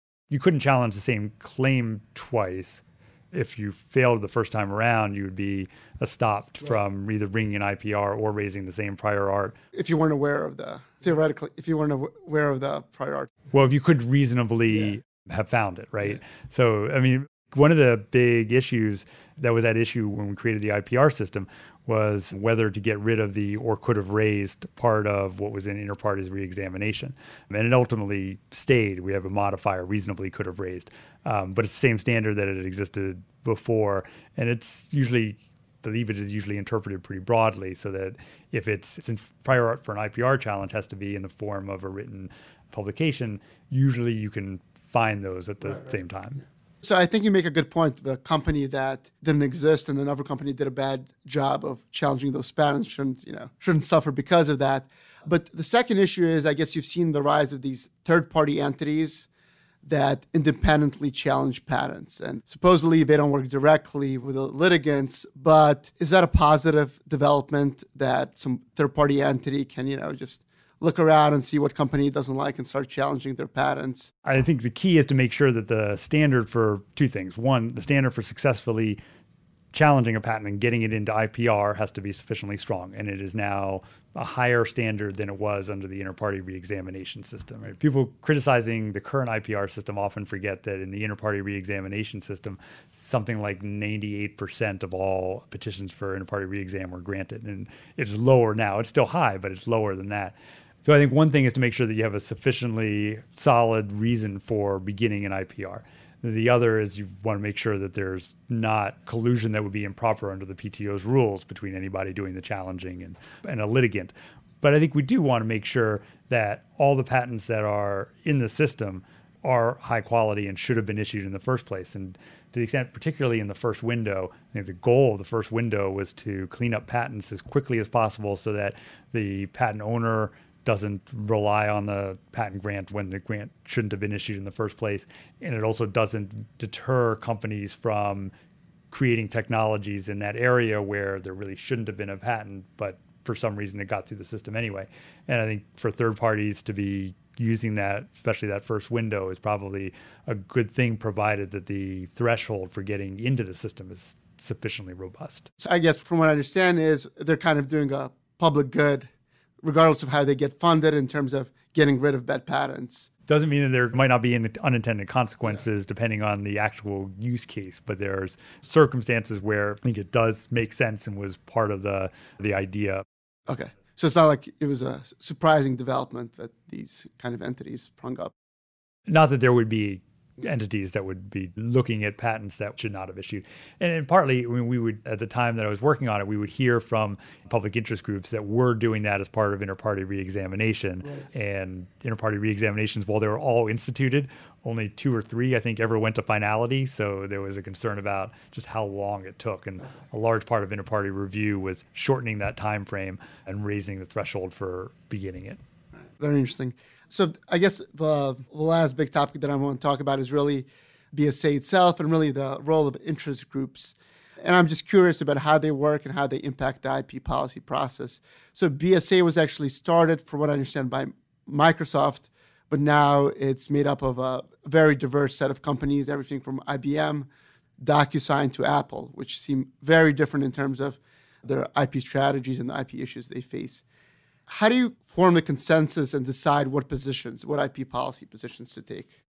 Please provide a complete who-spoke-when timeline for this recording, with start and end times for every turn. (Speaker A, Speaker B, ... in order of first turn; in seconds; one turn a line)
Speaker A: 0.3-9.6
Speaker B: 9.7-13.3
Speaker A: 13.5-46.4
Speaker B: 46.8-59.3
Speaker B: 59.8-74.1
Speaker A: 74.2-79.0
Speaker A: 79.7-138.3
Speaker A: 138.9-155.5
Speaker B: 155.6-159.1
Speaker B: 159.6-163.1
Speaker A: 163.3-173.0
Speaker B: 173.5-178.3
Speaker A: 179.1-205.6
Speaker B: 206.2-227.3
Speaker B: 227.8-233.8
Speaker B: 234.5-239.1